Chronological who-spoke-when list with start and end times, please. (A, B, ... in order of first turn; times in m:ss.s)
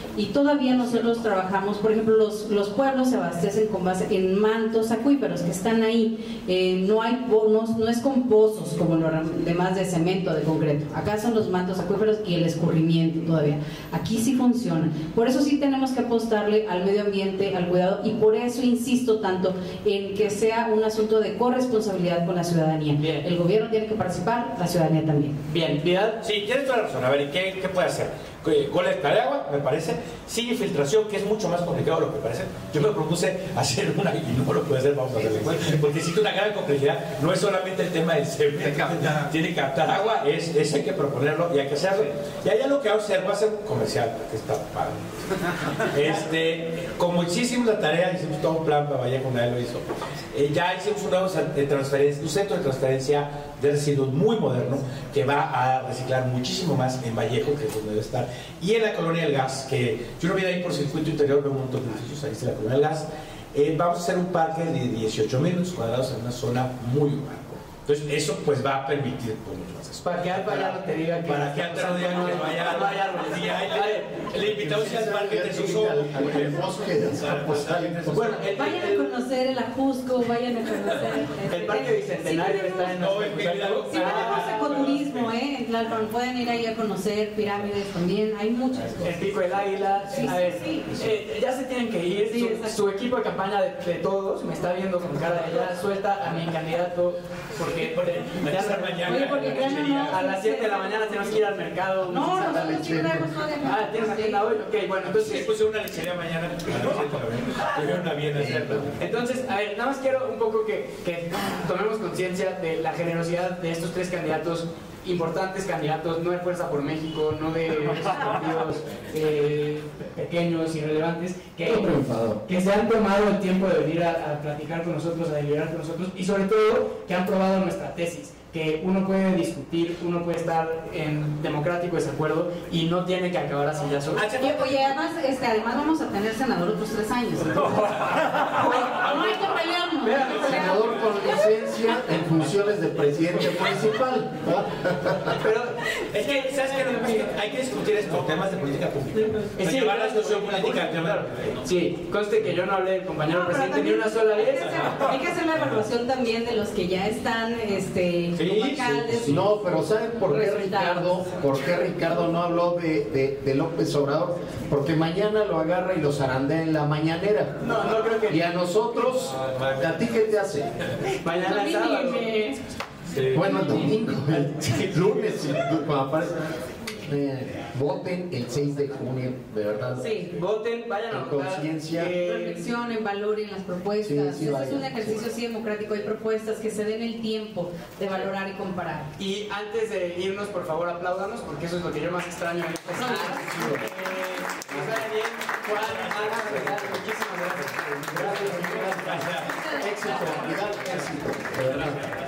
0:00.1-0:25.4 A
0:23.0-0:23.2 B
0:25.5-0:26.2 B
0:26.2-1:19.0 C
1:10.0-1:14.3 B
1:14.4-1:18.2 D
1:18.1-1:19.0 B
1:18.5-1:23.0 A
1:21.4-1:24.5 B
1:22.9-1:25.3 C
1:23.9-1:29.4 A
1:29.0-1:45.5 B
1:30.1-1:31.0 A
1:32.2-1:32.7 A
1:37.7-1:40.2 C
1:39.0-1:41.5 A
1:42.0-1:44.4 A
1:42.5-1:43.2 D
1:45.0-1:49.2 C
1:48.3-1:48.9 D
1:49.0-2:01.9 B
2:01.6-2:02.4 D
2:02.4-2:14.2 B
2:14.2-2:14.9 C
2:14.4-2:20.8 A
2:17.7-2:19.4 C
2:18.6-2:19.3 B
2:20.0-2:20.7 B
2:20.2-2:20.8 C
2:20.4-2:25.4 D
2:25.4-2:27.3 B
2:26.1-2:31.6 C
2:29.6-2:35.0 B
2:33.3-2:39.5 A
2:38.4-2:39.3 C
2:39.2-2:47.6 D
2:40.3-2:41.0 A
2:47.6-2:48.4 B
2:48.3-2:50.7 D
2:51.1-2:52.3 B
2:51.4-2:52.6 A
2:53.3-2:56.4 D
2:53.3-2:53.9 A
2:57.0-3:00.2 D
3:00.0-3:00.3 A
3:00.1-3:02.6 B
3:01.1-3:02.1 D
3:02.2-3:09.1 A
3:04.0-3:05.3 D
3:09.2-3:19.3 B
3:13.0-3:13.4 A
3:13.0-3:13.9 D
3:15.8-3:16.9 C
3:18.1-3:22.0 D
3:18.1-3:19.5 C
3:19.5-3:19.8 A
3:21.7-3:22.0 C